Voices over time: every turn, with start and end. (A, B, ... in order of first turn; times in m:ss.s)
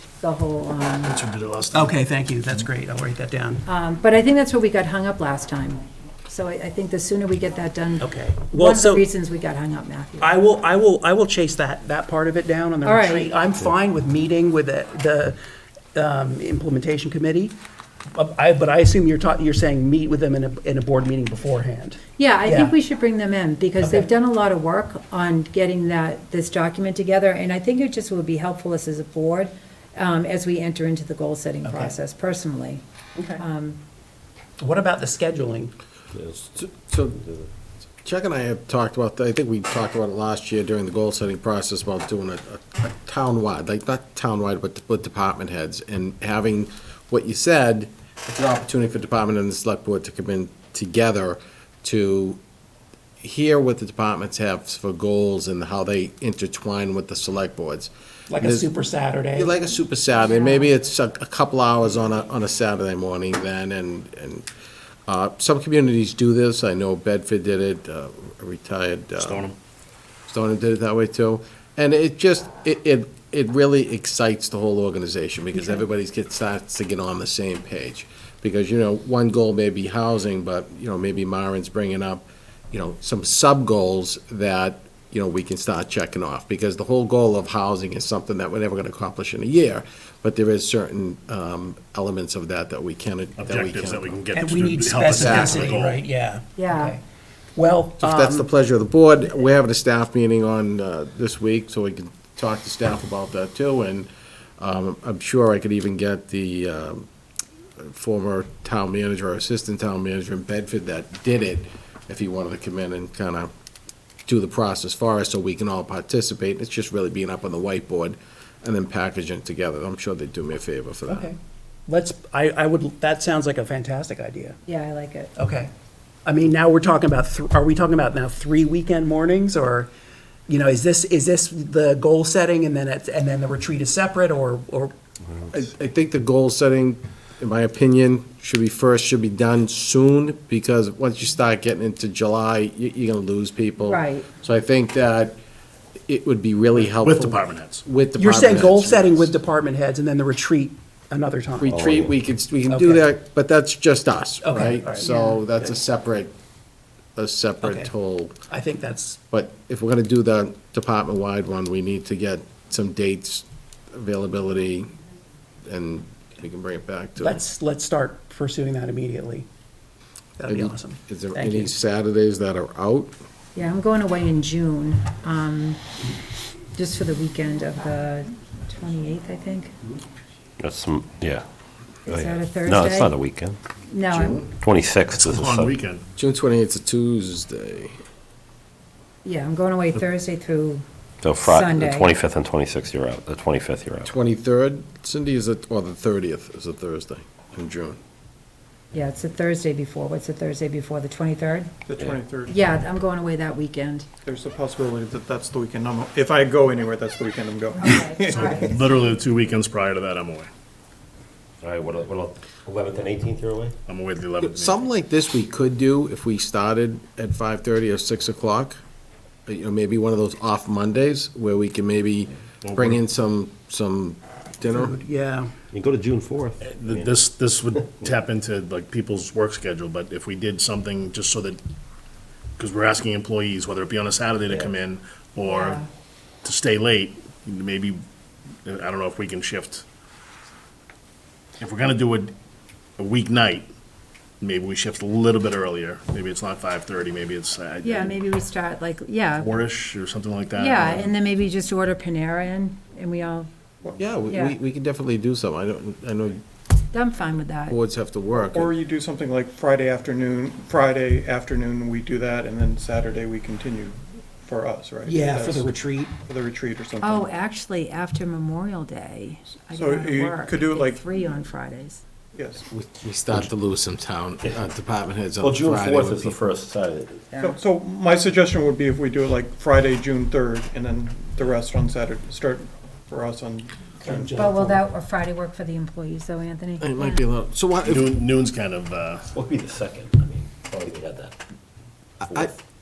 0:00.2-0:01.2 A
0:01.0-0:02.0 B
0:01.7-0:03.6 C
0:03.7-0:10.4 A
0:08.0-0:09.1 C
0:10.2-0:15.4 C
0:12.8-0:13.4 A
0:15.9-0:17.6 C
0:18.1-0:22.8 C
0:22.2-0:32.8 A
0:23.8-0:24.1 C
0:31.6-0:31.9 C
0:33.2-0:33.4 C
0:33.4-0:33.8 A
0:34.6-0:35.7 C
0:36.1-0:37.5 D
0:36.6-0:37.2 E
0:38.0-0:52.4 E
0:53.2-0:58.7 E
0:58.3-0:59.5 C
0:59.3-1:04.4 E
1:00.2-1:00.7 A
1:05.1-1:09.5 E
1:09.2-1:09.6 B
1:10.3-1:34.4 E
1:33.4-1:36.1 B
1:34.3-1:37.0 C
1:35.1-1:35.8 E
1:36.6-1:37.0 A
1:37.6-1:38.5 C
1:38.0-1:44.1 E
1:44.6-1:47.1 E
1:47.8-1:53.5 E
1:54.3-2:01.3 E
2:01.1-2:04.6 C
2:04.7-2:05.3 A
2:05.4-2:05.7 C
2:06.2-2:09.9 C
2:10.5-2:15.0 C
2:15.5-2:25.4 E
2:23.8-2:24.3 A
2:26.1-2:29.3 E
2:26.8-2:27.8 B
2:28.2-2:31.7 C
2:31.6-2:36.3 E
2:31.6-2:32.1 D
2:32.7-2:33.0 C
2:34.4-2:35.4 C
2:37.2-2:38.4 E
2:37.6-2:37.9 C
2:38.5-2:39.2 C
2:39.3-2:44.9 E
2:45.7-2:47.4 E
2:47.2-2:49.5 C
2:50.4-2:51.7 C
2:50.5-2:53.1 E
2:53.6-2:55.8 A
2:56.7-2:59.7 A
3:00.6-3:01.4 D
3:02.1-3:03.1 A
3:02.1-3:03.6 D
3:03.9-3:04.4 A
3:04.1-3:04.5 E
3:04.6-3:05.8 D
3:05.2-3:06.0 B
3:06.2-3:08.0 E
3:09.2-3:10.8 A
3:11.2-3:14.1 D
3:11.4-3:12.1 A
3:14.0-3:18.0 E
3:18.9-3:21.7 A
3:21.8-3:22.8 F
3:22.5-3:24.1 A
3:24.2-3:28.8 F
3:27.8-3:28.7 A
3:28.3-3:30.5 B
3:31.6-3:33.8 D
3:33.9-3:34.8 B
3:34.4-3:38.8 E
3:39.5-3:45.0 E
3:42.6-3:43.0 B
3:44.7-3:45.5 C
3:45.7-3:47.2 D
3:46.6-3:51.6 B
3:52.6-3:55.8 B
3:55.4-3:55.9 A
3:56.4-3:58.0 B
3:58.6-3:59.9 B
4:01.6-4:02.3 B
4:03.0-4:03.7 B
4:04.4-4:08.2 B
4:07.8-4:09.6 A
4:09.4-4:11.1 B
4:10.6-4:13.5 A
4:14.0-4:16.4 E
4:14.3-4:14.6 A
4:16.9-4:17.8 A
4:17.7-4:18.7 E
4:18.4-4:25.7 F
4:25.0-4:26.2 C
4:26.3-4:27.3 F
4:27.0-4:32.0 A
4:29.7-4:31.0 F
4:32.3-4:32.6 F
4:32.7-4:36.4 E
4:35.4-4:37.2 D
4:37.3-4:37.6 A
4:37.4-4:44.4 F
4:44.0-4:44.8 C
4:44.4-4:47.2 A
4:46.8-4:48.2 E
4:47.8-4:49.3 B
4:49.3-4:51.4 D
4:52.2-4:52.5 E
4:52.2-4:52.6 D